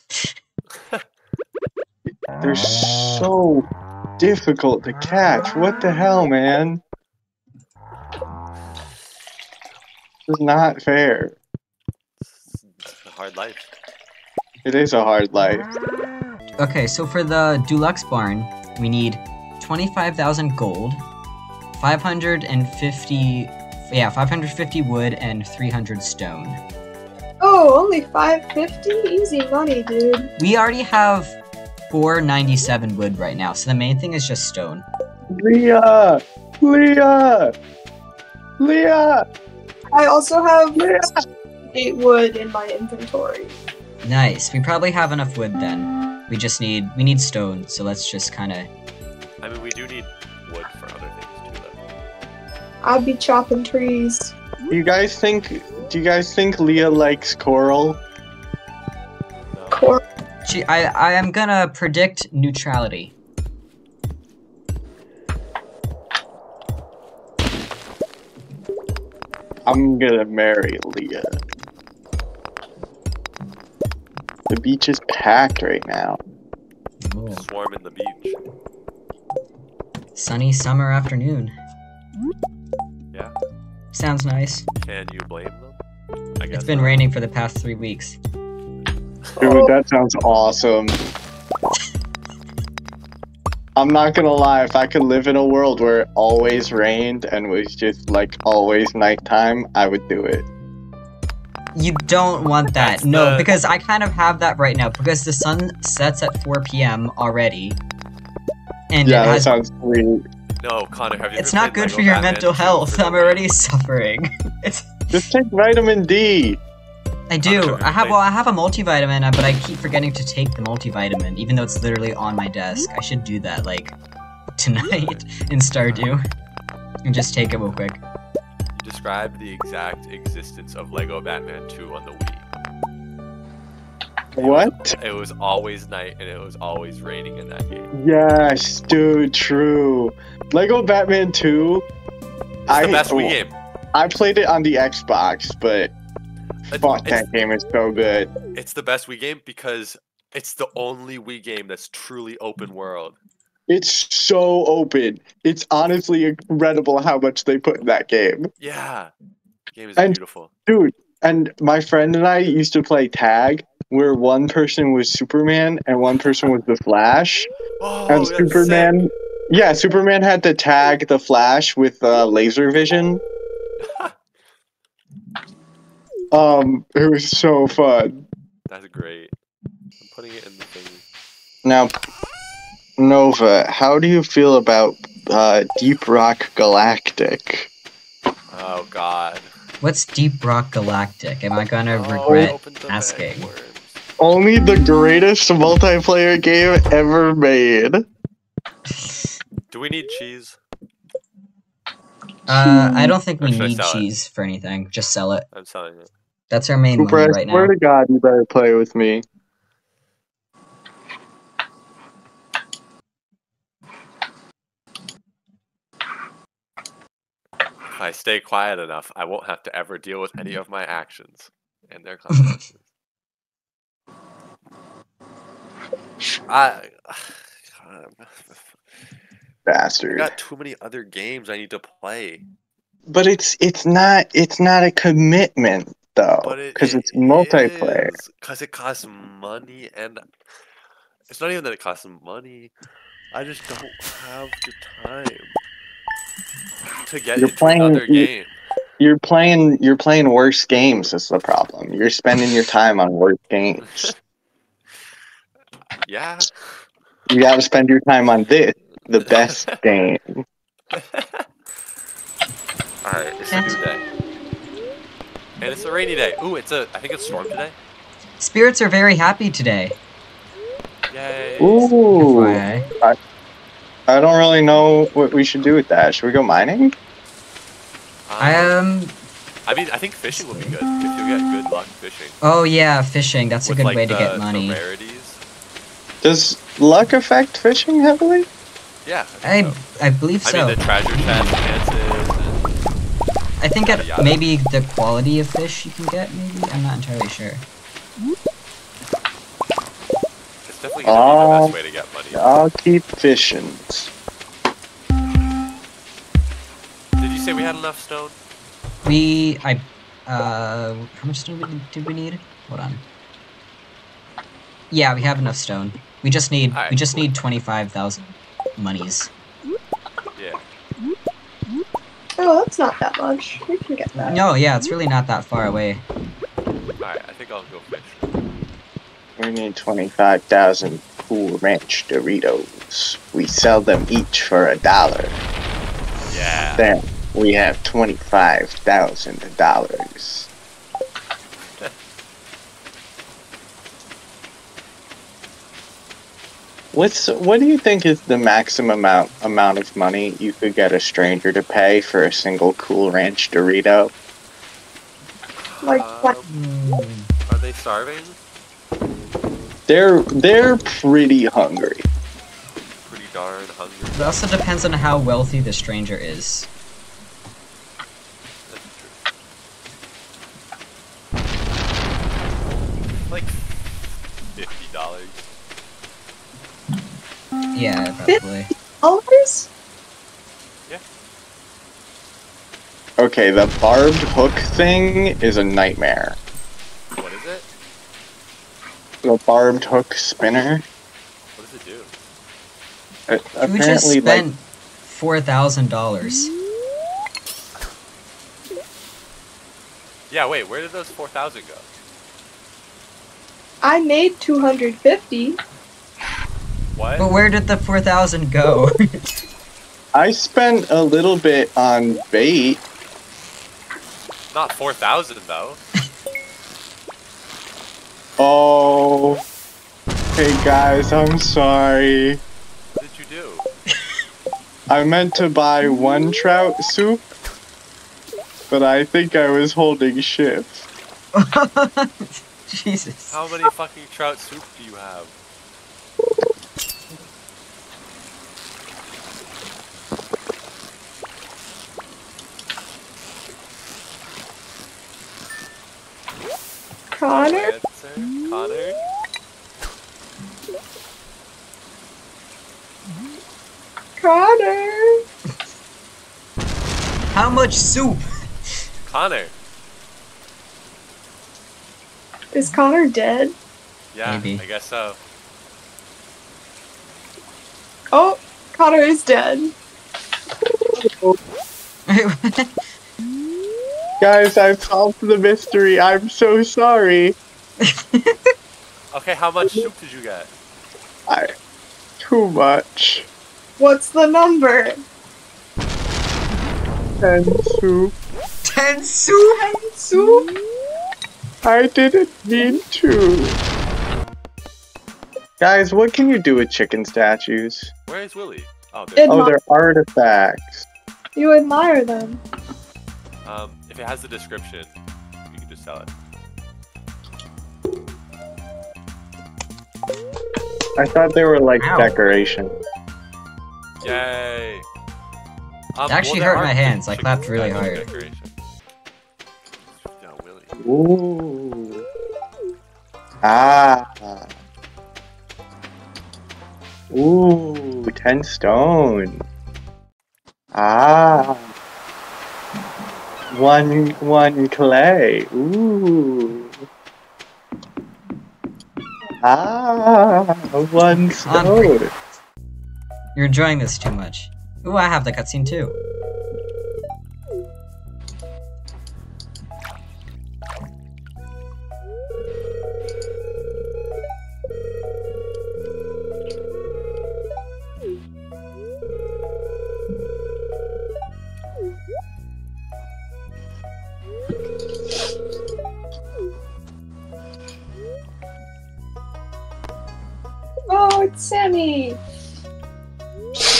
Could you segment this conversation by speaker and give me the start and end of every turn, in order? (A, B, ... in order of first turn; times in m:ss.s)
0:02.4-0:03.7 A
0:04.2-0:06.8 A
0:10.3-0:11.4 A
0:12.2-0:13.7 B
0:14.6-0:15.7 A
0:16.6-0:21.0 C
0:21.8-0:26.6 C
0:27.4-0:30.3 D
0:30.4-0:31.4 C
0:31.9-0:34.8 C
0:35.4-0:37.5 A
0:38.6-0:39.2 A
0:39.9-0:41.0 D
0:40.8-0:41.1 A
0:41.7-0:43.6 D
0:44.0-0:48.7 C
0:49.4-0:51.8 B
0:52.8-0:54.3 D
0:54.7-0:58.0 A
0:59.5-1:00.0 B
0:59.7-1:00.0 D
1:00.4-1:03.1 C
1:09.7-1:11.4 A
1:14.5-1:16.2 A
1:17.0-1:17.4 C
1:17.3-1:18.4 B
1:20.2-1:21.5 C
1:23.9-1:24.7 C
1:24.8-1:25.8 B
1:26.4-1:27.0 B
1:26.5-1:28.2 C
1:29.4-1:31.0 A
1:33.8-1:40.5 A
1:41.7-1:47.8 C
1:42.8-1:43.6 B
1:48.9-1:49.5 C
1:49.0-1:50.2 A
1:50.6-1:53.5 B
1:51.4-1:55.2 C
1:55.1-1:56.6 A
1:57.3-2:04.0 C
1:57.4-1:58.2 B
2:04.6-2:06.2 C
2:04.8-2:05.3 B
2:05.8-2:06.2 B
2:07.0-2:08.0 C
2:08.7-2:12.4 B
2:14.4-2:15.0 A
2:14.4-2:17.9 B
2:17.9-2:21.8 A
2:22.7-2:23.6 B
2:22.7-2:23.4 A
2:23.9-2:25.9 A
2:26.7-2:27.3 B
2:26.7-2:28.3 A
2:28.5-2:33.2 B
2:33.7-2:38.5 A
2:38.6-2:39.1 B
2:39.7-2:40.5 B
2:40.0-2:47.5 A
2:47.8-2:49.1 B
2:48.1-2:53.2 A
2:53.9-2:54.1 B
2:56.3-2:58.2 A
2:58.7-2:59.3 B
3:00.0-3:01.0 B
3:01.6-3:01.9 A
3:03.0-3:07.7 A
3:08.5-3:09.5 B
3:09.8-3:13.5 C
3:11.9-3:14.0 B
3:14.2-3:18.1 A
3:19.0-3:19.3 C
3:19.7-3:20.6 B
3:22.5-3:25.4 C
3:22.8-3:23.1 D
3:23.4-3:24.1 B
3:25.5-3:26.1 B
3:26.5-3:27.7 C
3:27.0-3:29.2 A
3:37.9-3:42.8 B
3:46.5-3:48.7 B
3:49.7-3:50.3 A
3:50.1-3:52.4 B
3:53.1-3:58.1 A
3:56.4-4:00.3 B
4:01.3-4:02.7 B
4:03.3-4:05.6 B
4:07.0-4:08.6 B
4:07.4-4:08.3 A
4:09.0-4:14.1 A
4:16.0-4:16.6 B
4:17.3-4:20.4 A
4:19.2-4:19.8 B
4:20.9-4:21.5 B
4:23.0-4:24.0 B
4:23.5-4:23.8 C
4:25.6-4:27.8 B
4:28.4-4:30.0 C
4:31.1-4:31.9 B
4:31.6-4:33.2 A
4:32.2-4:32.9 C
4:34.1-4:36.9 A
4:38.3-4:38.8 B
4:38.4-4:39.2 C
4:39.7-4:42.4 B
4:40.3-4:40.8 C
4:42.4-4:44.8 C
4:43.6-4:45.4 B
4:46.2-4:48.5 A
4:49.0-4:49.8 B
4:49.4-4:51.6 C
4:50.4-4:52.7 B
4:53.6-4:57.6 C
4:53.8-4:54.5 B
5:00.6-5:02.4 B
5:01.0-5:01.7 A
5:02.3-5:04.1 A
5:07.2-5:08.4 B
5:09.0-5:13.0 C
5:14.9-5:19.3 C
5:16.7-5:17.2 B
5:20.4-5:20.6 B
5:22.4-5:24.4 D
5:24.2-5:26.0 C
5:27.0-5:28.3 B
5:29.4-5:35.4 A
5:36.3-5:36.9 B
5:36.8-5:40.5 A
5:46.9-5:54.1 A
5:55.6-5:56.5 B
5:55.8-5:56.4 D
5:56.5-5:57.3 C
5:57.5-5:58.4 B
5:59.9-6:02.1 A
6:03.0-6:04.4 B
6:04.1-6:06.7 C
6:08.7-6:09.2 B
6:13.3-6:13.6 B
6:14.6-6:15.5 B
6:17.8-6:18.7 C
6:19.0-6:19.7 D
6:23.2-6:26.4 A
6:27.2-6:27.7 B
6:29.2-6:30.8 A
6:31.6-6:32.2 B
6:33.3-6:34.4 A
6:33.6-6:36.5 C
6:40.3-6:41.9 B
6:43.8-6:45.6 D
6:47.0-6:47.3 B
6:47.2-6:49.2 C
6:50.2-6:52.8 A
6:54.5-6:55.8 B
6:58.4-6:59.4 A
7:00.3-7:02.4 A
7:03.0-7:03.7 B
7:04.9-7:07.3 A
7:08.7-7:10.9 A
7:11.4-7:13.4 C
7:13.3-7:15.3 B
7:27.1-7:27.7 D
7:27.3-7:29.0 B
7:34.2-7:35.2 D
7:37.3-7:38.3 C
7:39.1-7:39.5 B
7:42.5-7:43.6 D
7:44.1-7:45.2 B
7:44.2-7:44.6 C
7:48.1-7:49.7 D
7:50.9-7:51.4 A
7:52.1-7:52.7 C
7:54.2-7:57.4 A
7:57.8-7:58.4 C
7:59.1-8:00.5 B
8:01.3-8:01.5 A
8:02.2-8:03.3 A
8:03.8-8:05.0 D
8:07.2-8:08.1 A
8:08.6-8:09.9 C
8:09.9-8:10.5 D
8:11.6-8:13.6 A
8:15.6-8:17.9 A
8:18.1-8:19.4 B
8:19.2-8:19.6 D
8:19.3-8:20.9 A
8:21.4-8:22.4 D
8:23.4-8:26.1 B
8:31.0-8:32.8 A
8:31.8-8:32.1 C
8:34.0-8:34.9 B
8:36.0-8:38.6 B
8:36.1-8:38.1 C
8:40.0-8:40.8 B
8:40.8-8:42.0 A
8:43.4-8:44.5 A
8:47.1-8:49.4 A
8:50.7-8:51.6 A
8:53.5-8:56.8 A
8:59.4-9:02.1 A
9:01.5-9:02.0 C
9:03.4-9:06.0 C
9:30.9-9:32.2 D